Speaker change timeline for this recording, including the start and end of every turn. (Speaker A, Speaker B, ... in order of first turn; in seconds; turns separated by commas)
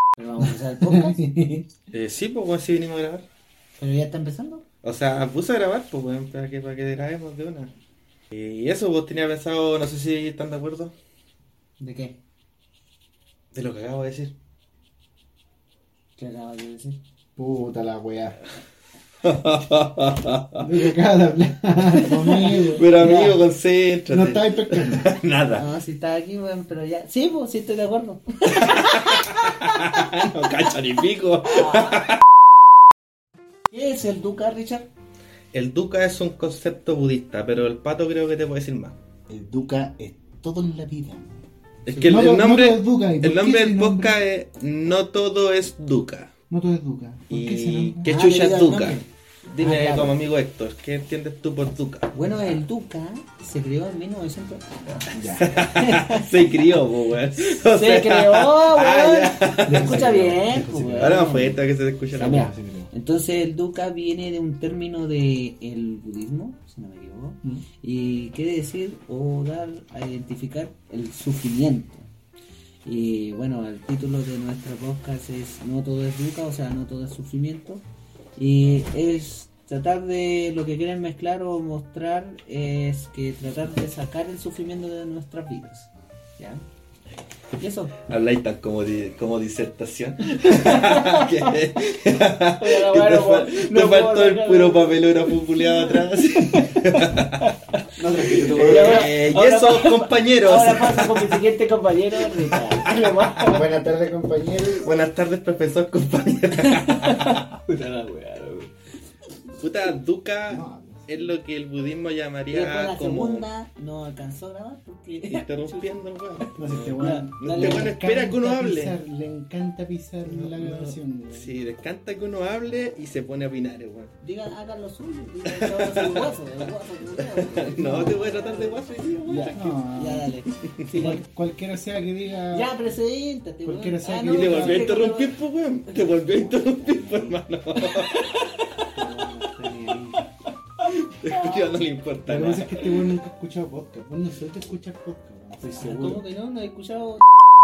Speaker A: 0.2-1.2, Speaker B: 0.4-1.7, Speaker C: 1.9-3.3, Speaker A: 3.8-4.7, Speaker C: 4.8-7.7, Speaker C: 8.3-10.9, Speaker A: 11.8-12.2, Speaker C: 13.5-14.3, Speaker A: 16.2-17.0, Speaker B: 17.4-18.4, Speaker C: 19.2-20.7, Speaker B: 20.6-22.9, Speaker A: 22.1-23.4, Speaker C: 22.4-25.7, Speaker B: 24.1-25.1, Speaker A: 25.6-30.3, Speaker C: 28.5-32.2, Speaker A: 31.4-32.1, Speaker A: 33.7-34.9, Speaker C: 35.5-39.0, Speaker B: 39.3-41.4, Speaker C: 41.9-46.3, Speaker A: 41.9-42.4, Speaker B: 42.0-44.2, Speaker B: 46.5-48.1, Speaker C: 47.3-52.1, Speaker A: 48.0-49.0, Speaker A: 49.6-50.2, Speaker B: 49.6-49.9, Speaker A: 52.1-56.7, Speaker B: 55.1-55.6, Speaker C: 55.4-60.0, Speaker A: 57.6-61.6, Speaker B: 59.7-61.3, Speaker C: 61.0-62.5, Speaker A: 62.1-72.1, Speaker B: 62.2-62.9, Speaker A: 72.8-77.8, Speaker A: 78.4-86.6, Speaker A: 87.6-88.0, Speaker C: 88.1-97.5, Speaker A: 90.3-91.5, Speaker A: 92.6-97.5, Speaker B: 98.0-99.2, Speaker C: 98.2-101.5, Speaker A: 98.3-103.7, Speaker C: 102.3-103.6, Speaker B: 103.5-104.9, Speaker C: 104.8-107.4, Speaker A: 106.6-108.7, Speaker C: 109.6-113.5, Speaker B: 110.5-111.3, Speaker A: 112.5-115.9, Speaker C: 115.3-119.0, Speaker B: 116.6-121.6, Speaker A: 117.0-117.9, Speaker C: 120.2-124.1, Speaker A: 124.2-128.8, Speaker C: 125.5-126.4, Speaker C: 127.6-130.2, Speaker B: 127.7-128.2, Speaker B: 129.2-130.3, Speaker A: 129.3-131.3, Speaker C: 130.7-131.0, Speaker B: 130.9-133.0, Speaker A: 132.5-135.4, Speaker B: 133.6-135.0, Speaker C: 134.3-138.3, Speaker B: 136.0-137.4, Speaker A: 137.8-139.3, Speaker B: 138.9-140.3, Speaker C: 140.9-142.9, Speaker A: 141.2-141.7, Speaker B: 142.3-146.3, Speaker A: 145.6-147.3